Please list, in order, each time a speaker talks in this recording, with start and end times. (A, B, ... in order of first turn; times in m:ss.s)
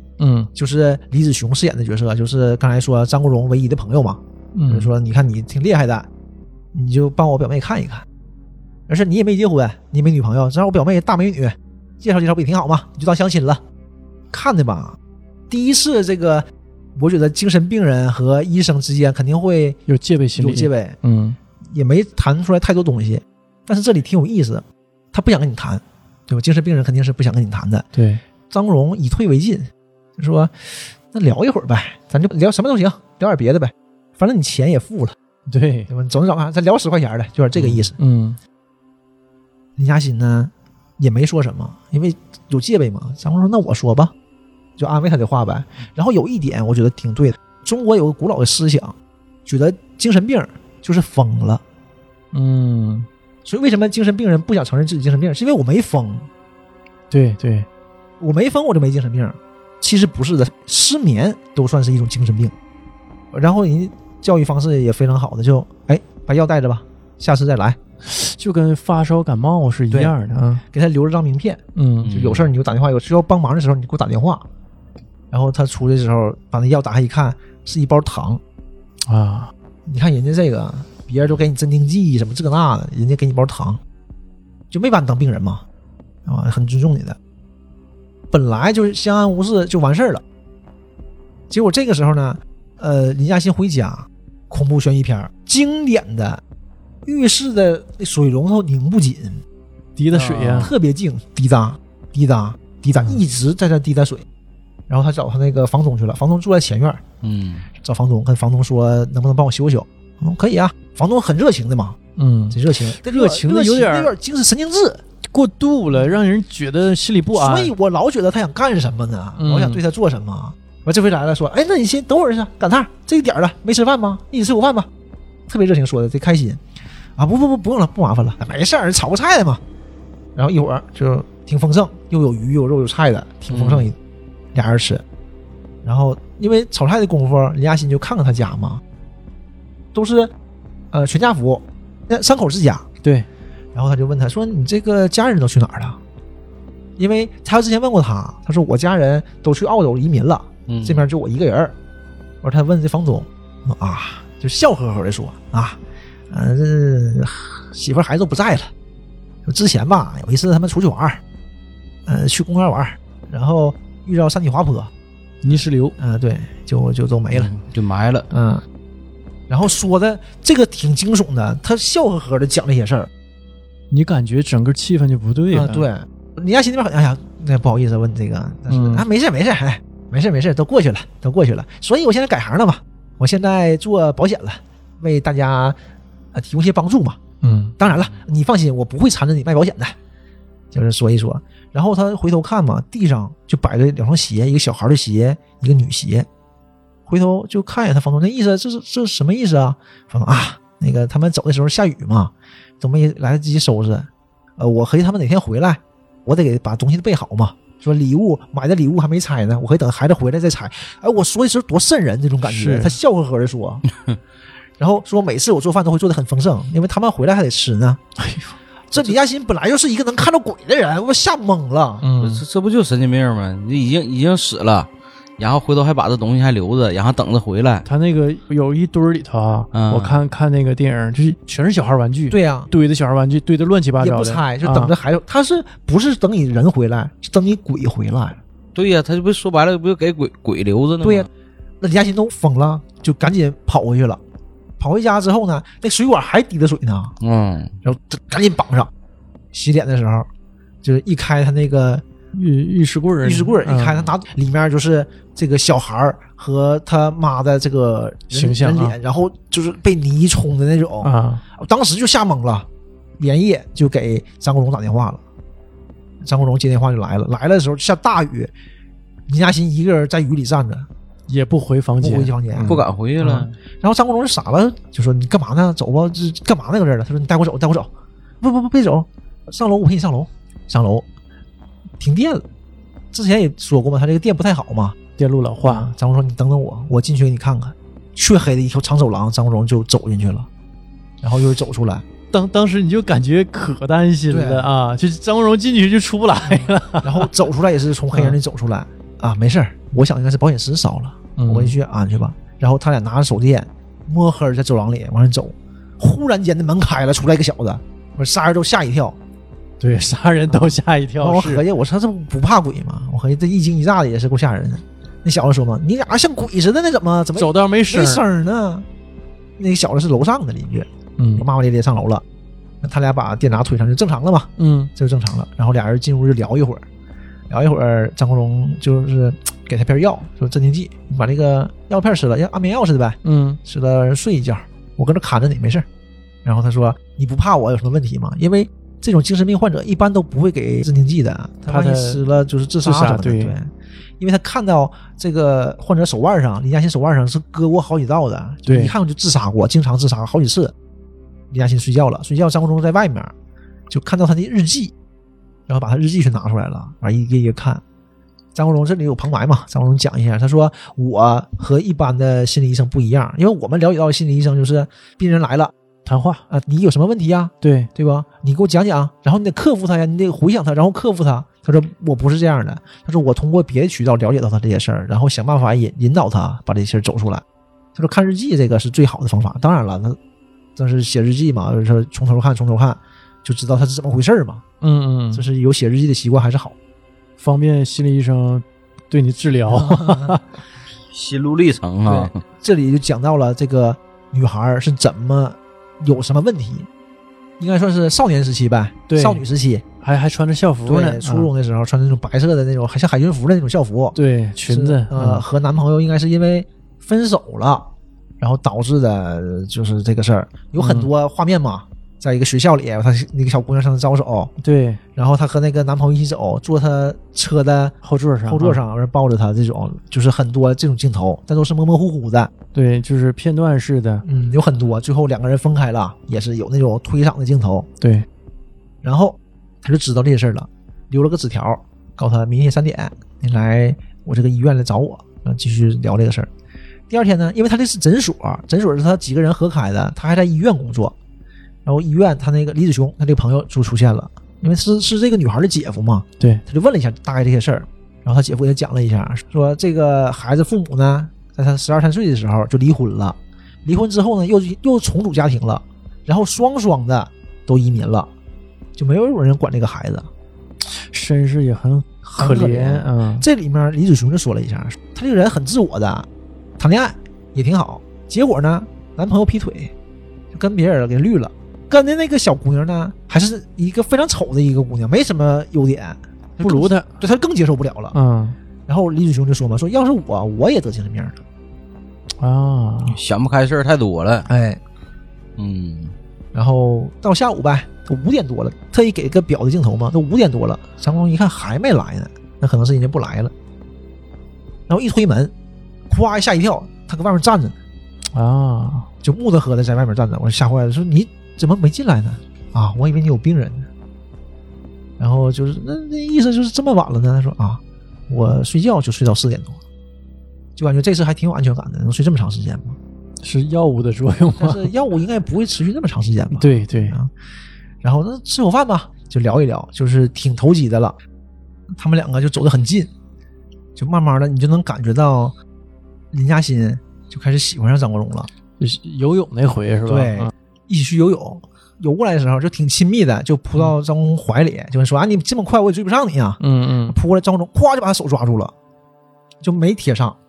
0:00.2-0:00.5 A
0:00.5-0:06.1 B
0:04.5-0:04.9 A
0:06.7-0:08.0 B
0:08.9-0:13.6 B
0:14.3-0:15.0 B
0:15.5-0:19.8 B
0:19.9-0:21.4 A
0:20.4-0:21.0 B
0:21.6-0:27.9 B
0:27.9-0:28.2 A
0:28.5-0:35.2 B
0:35.5-0:35.9 A
0:35.9-0:38.0 B
0:38.0-0:38.4 A
0:39.8-0:44.1 B
0:44.8-0:51.6 B
0:52.3-0:53.1 A
0:53.4-0:56.3 B
0:57.1-0:57.7 A
0:58.2-1:02.5 B
1:03.3-1:07.8 B
1:08.0-1:10.6 A
1:09.9-1:10.2 B
1:10.7-1:14.4 B
1:11.8-1:12.1 A
1:12.0-1:12.5 C
1:15.3-1:18.4 B
1:19.1-1:19.5 A
1:19.9-1:23.8 B
1:24.7-1:25.6 B
1:26.2-1:27.2 B
1:28.3-1:30.2 B
1:31.5-1:36.4 B
1:37.0-1:39.4 B
1:40.0-1:40.7 A
1:40.1-1:44.2 B
1:44.9-1:47.0 B
1:47.2-1:47.7 C
1:47.8-1:52.0 B
1:52.2-1:54.1 A
1:52.5-1:55.0 B
1:55.2-1:57.7 A
1:57.3-2:04.9 B
1:59.4-1:59.8 A
2:05.5-2:06.6 B
2:07.2-2:09.6 B
2:10.3-2:14.0 B
2:13.5-2:13.9 C
2:14.5-2:15.0 B
2:15.8-2:18.8 B
2:19.9-2:20.3 B
2:20.9-2:22.9 B
2:23.7-2:26.0 B
2:27.0-2:31.7 B
2:30.7-2:31.0 C
2:32.4-2:35.8 B
2:36.3-2:38.7 B
2:39.4-2:41.2 B
2:42.0-2:44.9 B
2:45.4-2:46.0 A
2:45.4-2:47.5 B
2:47.3-2:48.3 C
2:48.3-2:48.6 B
2:49.5-2:53.1 B
2:53.9-2:55.9 A
2:55.5-3:05.8 B
2:58.7-2:59.0 A
3:06.3-3:07.2 B
3:07.4-3:07.8 A
3:07.8-3:10.0 B
3:10.7-3:16.3 B
3:17.1-3:33.8 B
3:32.4-3:33.0 A
3:34.8-3:38.0 B
3:38.2-3:39.2 A
3:38.9-3:42.0 B
3:42.0-3:42.4 A
3:42.2-3:47.8 C
3:47.8-3:54.9 A
3:49.7-3:50.2 C
3:52.3-3:52.7 B
3:54.0-3:58.4 B
3:58.7-4:01.3 C
4:01.0-4:01.3 B
4:01.8-4:04.2 B
4:04.8-4:07.2 B
4:07.2-4:07.7 C
4:07.8-4:08.9 B
4:09.5-4:10.3 B
4:10.8-4:12.0 B
4:12.3-4:14.1 A
4:13.2-4:22.7 B
4:18.3-4:19.0 A
4:21.0-4:21.4 A
4:23.2-4:25.2 B
4:26.2-4:28.5 B
4:29.3-4:30.9 B
4:31.3-4:32.8 A
4:32.0-4:37.9 B
4:32.6-4:33.5 C
4:38.4-4:41.1 B
4:42.0-4:42.4 B
4:43.1-4:45.0 B
4:45.2-4:45.9 A
4:45.6-4:50.5 B
4:51.2-4:52.0 B
4:52.3-4:57.3 A
4:54.3-4:54.7 B
4:56.5-5:09.2 B
4:58.1-4:58.4 A
5:01.4-5:01.8 A
5:09.8-5:11.6 A
5:11.2-5:18.8 B
5:17.4-5:18.2 A
5:19.6-5:22.2 B
5:21.2-5:21.5 A
5:22.8-5:26.8 B
5:24.6-5:24.9 A
5:27.5-5:35.8 B
5:33.2-5:33.6 A
5:36.4-5:50.7 B
5:41.7-5:42.2 A
5:42.8-5:43.6 A
5:48.6-5:48.9 A
5:51.5-5:53.3 B
5:53.9-5:54.9 B
5:55.7-5:57.8 B
5:58.5-6:05.7 B
6:06.0-6:06.4 A
6:06.5-6:17.4 B
6:07.6-6:07.9 A
6:17.9-6:20.2 B
6:20.8-6:24.6 B
6:24.8-6:25.4 A
6:25.3-6:26.8 B
6:27.4-6:30.4 A
6:29.7-6:30.4 B
6:31.1-6:32.4 C
6:32.0-6:36.9 B
6:37.6-6:39.8 B
6:39.1-6:39.4 A
6:40.0-6:41.5 A
6:40.8-6:44.2 B
6:44.1-6:45.4 A
6:44.7-6:54.5 B
6:50.8-6:51.1 A
6:54.6-6:55.0 A
6:55.2-7:02.5 B
6:58.0-6:58.8 A
7:02.7-7:04.2 A
7:04.2-7:07.9 B
7:08.0-7:08.2 A
7:09.0-7:16.5 B
7:17.1-7:21.1 B
7:21.8-7:38.3 B
7:39.0-7:40.3 B
7:40.9-7:43.4 A
7:42.2-7:46.3 B
7:46.8-7:49.9 B
7:50.5-7:58.2 B
7:56.6-7:57.1 A
7:58.1-7:58.6 A
7:58.9-8:01.4 B
8:02.4-8:03.2 A
8:03.1-8:04.5 C
8:04.5-8:04.8 B
8:05.6-8:06.1 C
8:06.5-8:13.5 B
8:14.9-8:15.5 B
8:16.1-8:17.8 B
8:18.3-8:19.1 A
8:19.2-8:23.9 B
8:25.2-8:29.8 B
8:30.8-8:33.0 B
8:33.4-8:34.9 A
8:34.5-8:37.3 B
8:36.5-8:37.2 A
8:38.0-8:41.2 B
8:41.9-8:43.1 B
8:44.0-8:45.5 B
8:46.3-8:48.5 B
8:48.8-8:50.5 A
8:50.1-8:58.7 B
8:56.6-8:57.2 A
8:59.6-9:00.4 B